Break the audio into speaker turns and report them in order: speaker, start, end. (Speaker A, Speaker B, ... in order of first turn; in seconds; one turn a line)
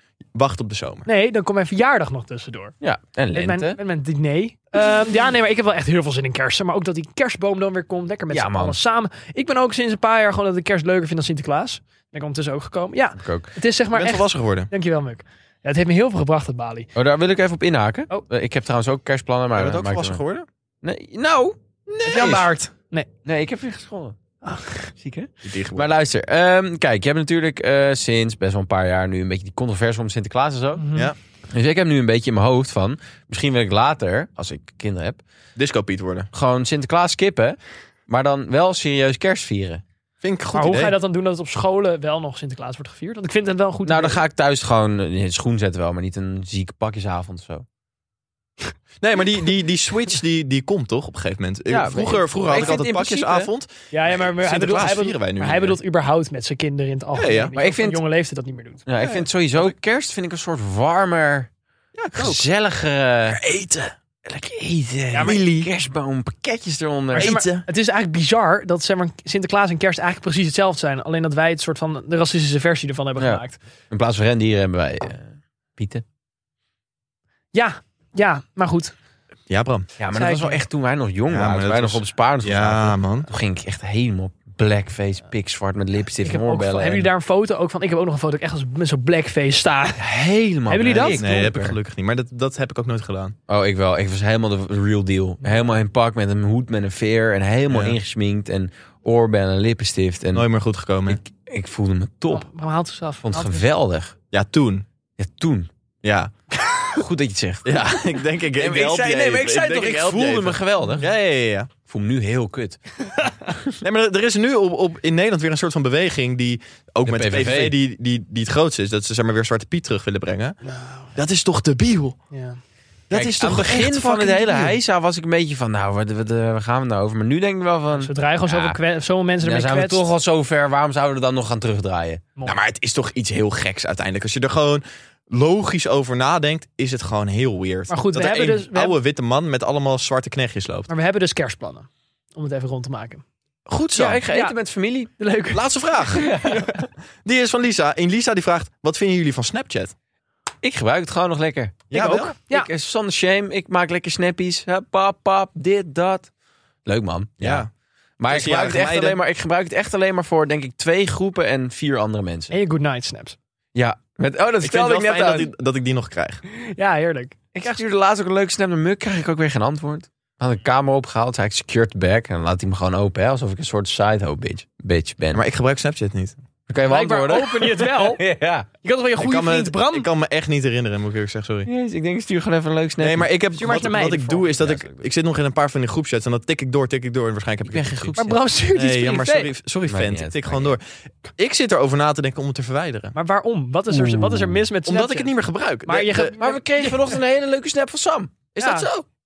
Speaker A: 0.3-1.1
Speaker B: 1.1-2.7
Speaker C: 2.8-3.8
Speaker B: 3.3-16.9
Speaker C: 8.3-8.8
Speaker C: 13.2-13.5
Speaker A: 13.9-14.7
Speaker C: 16.9-20.2
Speaker A: 19.6-20.5
Speaker C: 20.8-21.6
Speaker A: 21.9-22.4
Speaker B: 22.0-23.1
Speaker C: 22.1-22.4
Speaker C: 23.2-24.1
Speaker B: 24.4-24.9
Speaker C: 25.0-30.9
Speaker A: 25.4-25.9
Speaker B: 30.8-31.1
Speaker C: 31.5-35.2
Speaker A: 35.5-36.3
Speaker C: 36.3-39.8
Speaker A: 40.2-40.9
Speaker B: 40.5-44.2
Speaker C: 43.8-47.6
Speaker A: 49.0-55.8
Speaker C: 51.7-53.5
Speaker B: 53.9-58.8
Speaker A: 57.1-57.5
Speaker C: 57.5-58.0
Speaker C: 58.9-61.5
Speaker A: 59.0-59.7
Speaker A: 62.0-62.4
Speaker C: 62.1-63.4
Speaker A: 63.3-63.9
Speaker C: 64.2-67.4
Speaker B: 65.1-65.4
Speaker A: 65.2-65.7
Speaker B: 67.1-73.6
Speaker A: 67.2-67.7
Speaker C: 73.2-76.0
Speaker B: 77.5-78.9
Speaker A: 79.5-79.9
Speaker C: 80.0-87.1
Speaker B: 80.1-80.6
Speaker A: 81.3-83.3
Speaker B: 86.2-90.0
Speaker C: 90.0-91.8
Speaker B: 90.7-91.2
Speaker A: 91.0-93.3
Speaker C: 93.5-100.5
Speaker A: 97.7-98.0
Speaker A: 100.3-101.2
Speaker C: 101.1-102.5
Speaker B: 102.3-103.6
Speaker C: 103.2-104.1
Speaker A: 104.3-104.8
Speaker C: 105.2-105.7
Speaker A: 106.0-106.3
Speaker C: 106.9-108.0
Speaker A: 107.6-111.7
Speaker C: 108.5-111.0
Speaker C: 111.8-112.8
Speaker B: 113.1-113.5
Speaker A: 113.8-120.6
Speaker C: 117.0-117.8
Speaker B: 120.6-121.1
Speaker A: 121.1-122.2
Speaker B: 122.3-122.6
Speaker A: 123.1-124.8
Speaker C: 123.1-128.8
Speaker B: 127.9-130.1
Speaker C: 129.4-132.2
Speaker A: 132.4-140.9
Speaker B: 137.9-138.9
Speaker B: 140.9-143.2
Speaker A: 143.7-144.2
Speaker C: 143.9-145.1
Speaker B: 144.0-144.6
Speaker B: 145.2-146.6
Speaker A: 145.5-146.3
Speaker C: 146.2-146.9
Speaker A: 147.2-149.9
Speaker C: 150.6-156.3
Speaker A: 151.9-152.3
Speaker B: 151.9-152.7
Speaker C: 156.8-157.7
Speaker A: 157.4-157.7
Speaker C: 158.2-162.5
Speaker A: 158.3-159.2
Speaker B: 162.5-163.4
Speaker C: 163.7-165.5
Speaker A: 164.6-166.4
Speaker B: 166.5-167.4
Speaker C: 167.5-175.4
Speaker A: 175.3-176.3
Speaker C: 176.7-178.7
Speaker B: 176.9-178.2
Speaker B: 178.8-180.1
Speaker A: 179.2-181.7
Speaker C: 181.7-183.3
Speaker A: 183.0-188.2
Speaker B: 183.6-184.5
Speaker C: 184.5-185.1
Speaker C: 187.6-188.4
Speaker B: 188.2-189.5
Speaker A: 188.7-190.8
Speaker C: 189.9-190.7
Speaker A: 191.4-193.1
Speaker B: 193.1-195.3
Speaker C: 193.9-194.5
Speaker A: 194.8-196.3
Speaker B: 195.8-197.0
Speaker C: 196.4-198.5
Speaker A: 198.5-199.0
Speaker B: 198.6-198.9